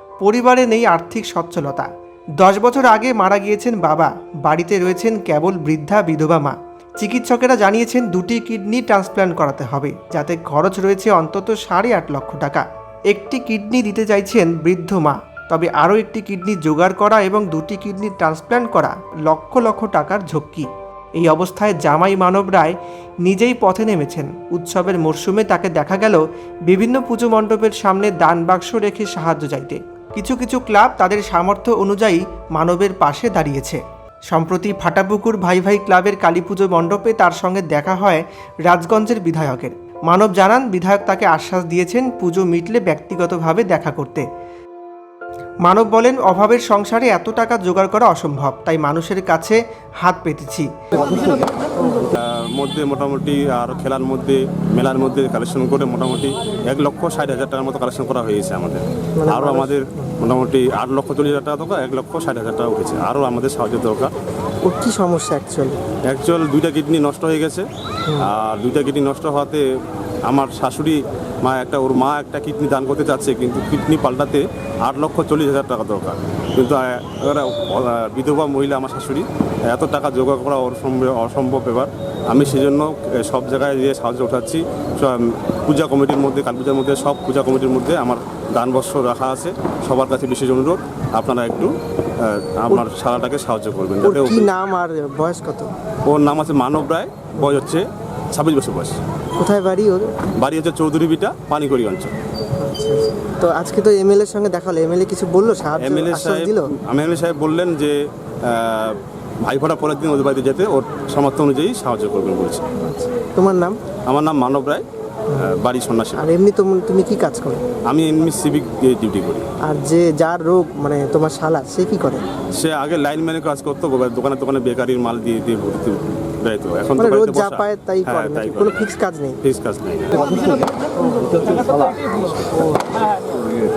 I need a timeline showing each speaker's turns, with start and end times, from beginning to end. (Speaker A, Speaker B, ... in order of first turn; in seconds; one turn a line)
Speaker A: 0.2-1.9
Speaker A: 2.4-44.2
Speaker A: 45.6-50.7
Speaker B: 52.1-64.1
Speaker C: 59.2-60.1
Speaker C: 64.7-65.8
Speaker B: 66.1-67.7
Speaker B: 68.2-69.6
Speaker B: 70.3-94.5
Speaker C: 94.0-95.7
Speaker B: 96.1-99.0
Speaker C: 99.4-100.1
Speaker B: 100.4-102.1
Speaker C: 102.6-106.7
Speaker B: 105.8-107.9
Speaker B: 108.5-112.6
Speaker C: 112.8-113.8
Speaker B: 114.1-114.8
Speaker B: 115.3-116.3
Speaker C: 116.2-117.6
Speaker B: 117.9-119.4
Speaker C: 119.6-122.2
Speaker B: 122.5-128.9
Speaker C: 127.0-129.4
Speaker B: 129.4-130.6
Speaker B: 131.4-132.7